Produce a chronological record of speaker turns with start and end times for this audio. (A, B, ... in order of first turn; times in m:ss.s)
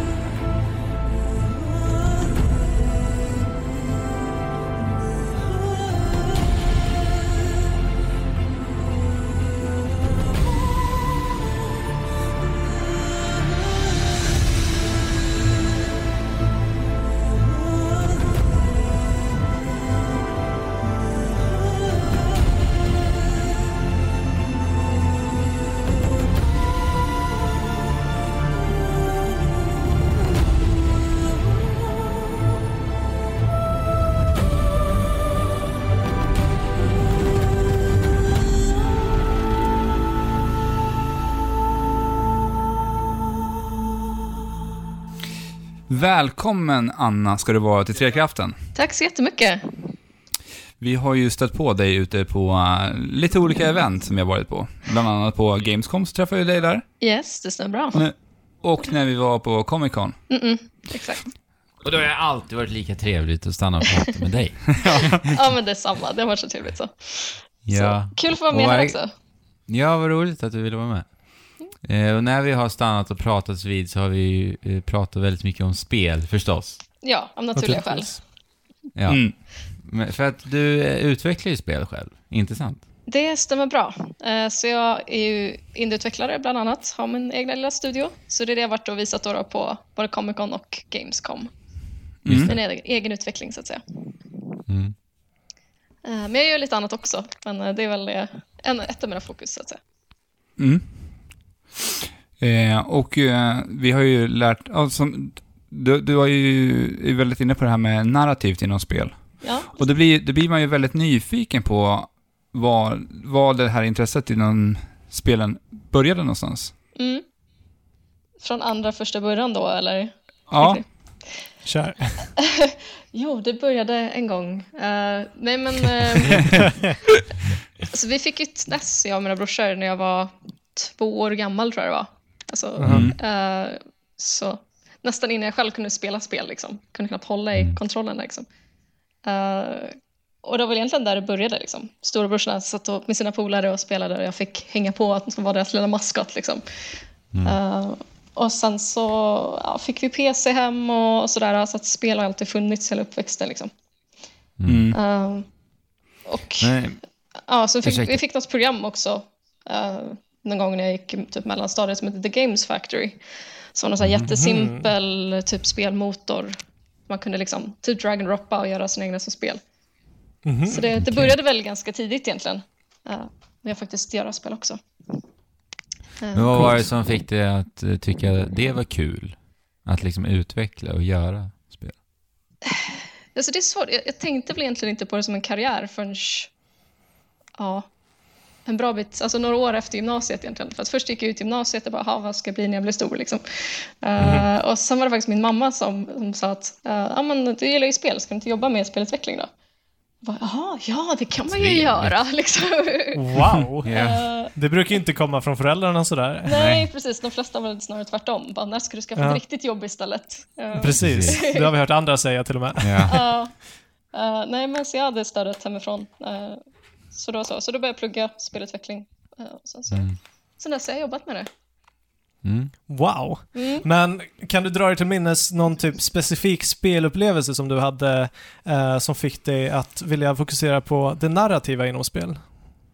0:45.9-0:48.6 A
0:48.7-0:49.9 B
0:50.8-0:56.8 A
0:57.0-0:58.0 B
0:57.9-1:00.2 A
1:00.3-1:01.3 B
1:01.8-1:05.2 C
1:04.8-1:09.1 B
1:07.6-1:09.0 C
1:09.7-1:16.8 C
1:17.0-1:18.2 B
1:17.6-1:18.2 D
1:18.9-1:22.8 C
1:19.1-1:19.3 A
1:23.0-1:31.5 B
1:32.2-1:32.6 A
1:32.3-1:32.6 C
1:32.4-1:34.2 B
1:34.7-1:34.9 C
1:36.0-1:39.8 B
1:40.6-1:40.9 A
1:42.4-1:56.7 A
1:49.4-1:49.8 B
1:57.0-1:57.2 B
1:58.4-2:00.8 B
2:00.5-2:00.8 A
2:01.6-2:02.2 D
2:02.4-2:06.6 B
2:07.8-2:18.4 B
2:12.8-2:13.0 D
2:12.8-2:13.2 A
2:19.2-2:33.7 B
2:34.6-2:34.9 C
2:34.6-2:35.0 A
2:34.9-2:35.4 B
2:36.2-2:36.7 B
2:36.6-2:37.0 C
2:37.4-2:43.2 B
2:37.8-2:38.2 C
2:43.7-2:49.6 B
2:44.0-2:44.3 C
2:44.3-2:44.9 D
2:50.4-2:51.0 D
2:50.7-2:54.8 B
2:56.2-2:56.8 B
2:56.3-3:02.0 C
3:02.7-3:06.5 B
3:07.6-3:07.9 B
3:08.6-3:19.5 B
3:14.2-3:14.5 D
3:20.2-3:24.6 B
3:21.5-3:22.1 C
3:23.1-3:23.9 D
3:23.8-3:24.3 C
3:24.5-3:26.6 D
3:26.5-3:26.9 C
3:26.5-3:31.7 B
3:30.8-3:33.1 D
3:31.0-3:31.4 C
3:32.8-3:33.2 C
3:33.0-3:33.6 B
3:34.1-3:41.5 B
3:39.9-3:40.2 C
3:42.4-3:42.7 C
3:42.9-3:52.4 D
3:43.5-3:43.9 B